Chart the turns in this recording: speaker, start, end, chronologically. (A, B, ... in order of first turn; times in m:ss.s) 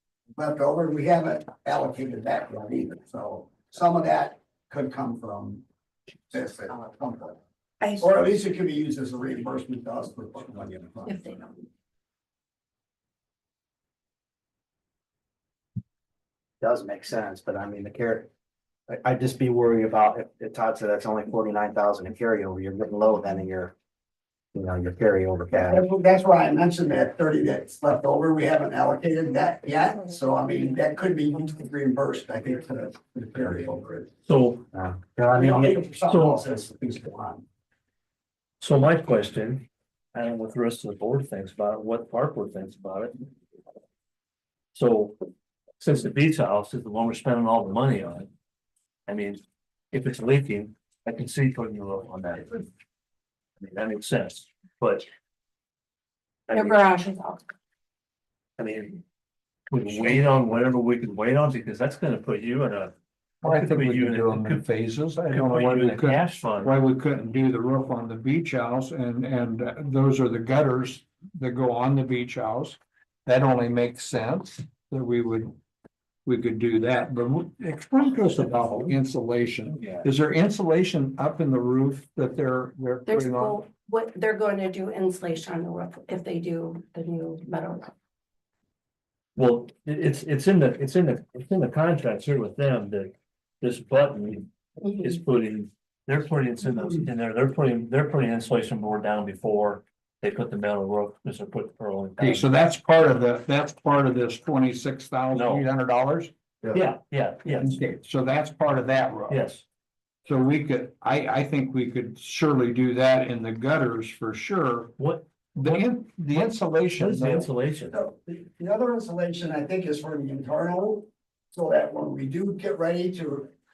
0:00.4-0:05.6 A
0:06.3-0:07.4 A
0:07.8-0:08.2 B
0:08.0-0:11.2 A
0:11.0-0:11.6 B
0:16.6-0:18.3 C
0:18.9-0:23.7 C
0:24.5-0:25.8 C
0:25.5-0:34.1 A
0:34.2-0:34.6 D
0:34.7-0:35.9 C
0:35.3-0:37.4 A
0:36.0-0:36.4 D
0:38.6-0:43.2 D
0:44.7-0:45.2 D
0:45.8-0:48.3 D
0:49.1-0:52.7 D
0:53.6-0:55.1 D
0:56.5-0:56.8 D
0:56.5-0:57.5 B
0:58.6-0:59.0 D
0:59.7-1:04.6 D
1:03.4-1:15.5 E
1:05.3-1:06.7 D
1:16.2-1:23.6 E
1:18.4-1:18.9 D
1:19.7-1:20.0 D
1:23.0-1:27.9 B
1:29.4-1:42.5 D
1:34.8-1:35.2 B
1:42.2-1:46.3 E
1:45.3-1:45.6 D
1:46.7-1:47.8 D
1:47.5-1:49.4 E
1:49.3-1:49.6 D
1:50.2-1:55.0 E
1:55.0-1:58.0 D
1:55.6-1:57.5 E
1:57.9-2:03.5 A